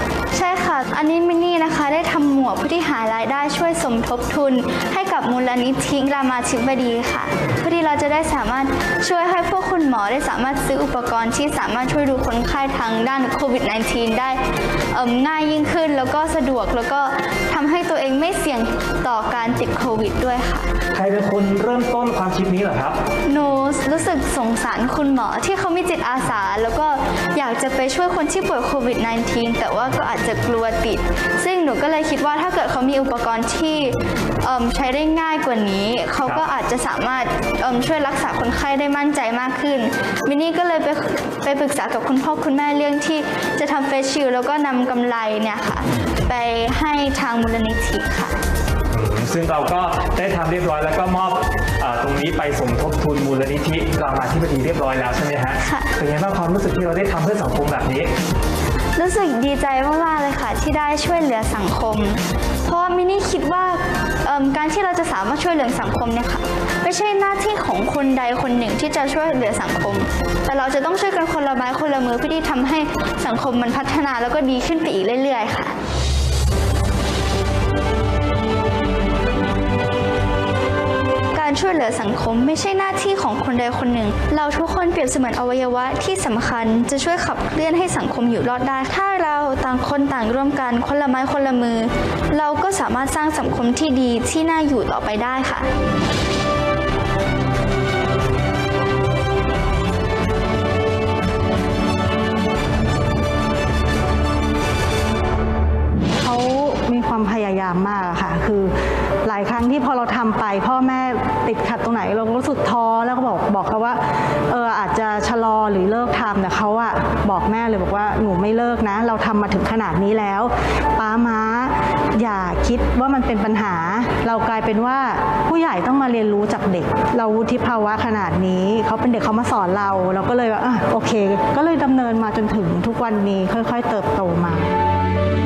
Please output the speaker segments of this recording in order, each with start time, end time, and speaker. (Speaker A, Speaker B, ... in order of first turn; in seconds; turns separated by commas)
Speaker A: 0.3-14.4, Speaker A: 14.9-20.7, Speaker B: 20.9-23.0, Speaker A: 23.3-48.4, Speaker B: 48.9-58.1, Speaker A: 55.6-55.9, Speaker A: 59.0-75.7, Speaker A: 81.3-95.7, Speaker C: 106.2-134.7